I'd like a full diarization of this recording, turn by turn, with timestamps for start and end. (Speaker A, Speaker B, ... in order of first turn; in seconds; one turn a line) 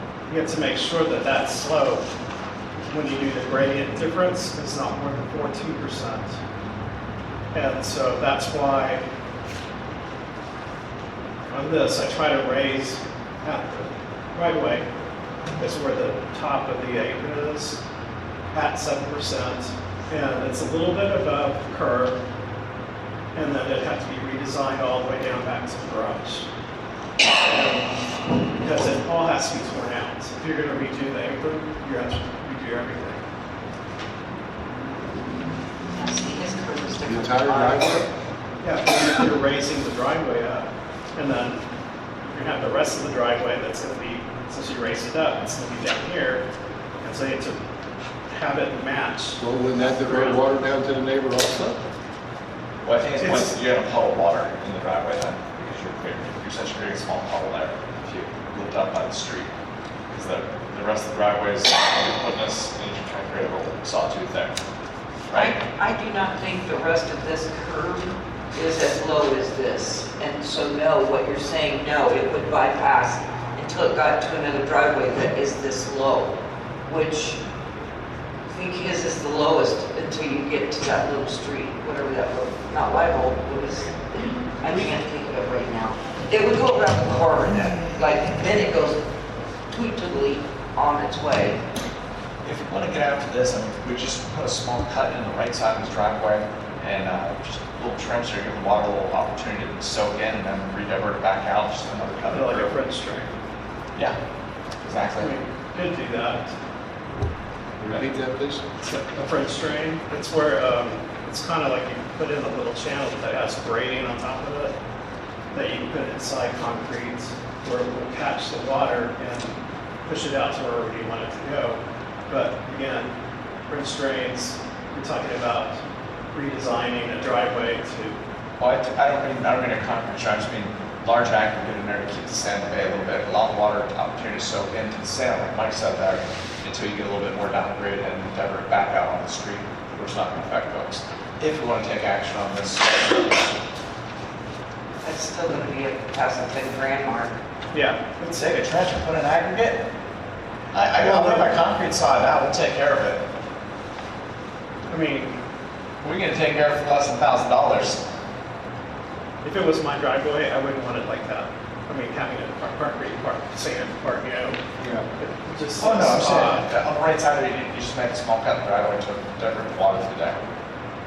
Speaker A: 0.3-2.1
Speaker A: 2.9-6.4
Speaker A: 7.5-9.1
Speaker A: 11.5-14.9
Speaker A: 15.6-17.8
Speaker A: 18.5-22.2
Speaker A: 23.4-26.5
Speaker A: 27.3-27.9
Speaker A: 28.6-33.2
Speaker B: 35.9-38.1
Speaker C: 37.0-38.1
Speaker A: 38.6-41.7
Speaker A: 42.2-46.5
Speaker A: 47.0-47.6
Speaker A: 48.3-50.4
Speaker C: 49.4-51.8
Speaker D: 52.8-59.5
Speaker A: 53.2-53.5
Speaker D: 60.1-64.6
Speaker D: 65.3-65.5
Speaker B: 65.3-77.4
Speaker B: 78.5-89.0
Speaker B: 89.7-91.6
Speaker D: 92.4-102.8
Speaker A: 102.3-103.3
Speaker D: 104.8-105.3
Speaker A: 105.2-106.5
Speaker C: 107.8-108.7
Speaker A: 108.8-114.8
Speaker A: 115.5-123.1
Speaker A: 123.7-125.8
Speaker A: 126.3-128.2
Speaker D: 128.6-143.4
Speaker B: 145.0-147.4
Speaker A: 147.7-148.4
Speaker D: 148.3-149.8
Speaker D: 150.7-153.2
Speaker A: 151.0-151.5
Speaker A: 154.9-155.4
Speaker D: 156.0-158.0
Speaker A: 159.4-164.6
Speaker A: 165.2-166.7
Speaker D: 165.8-170.4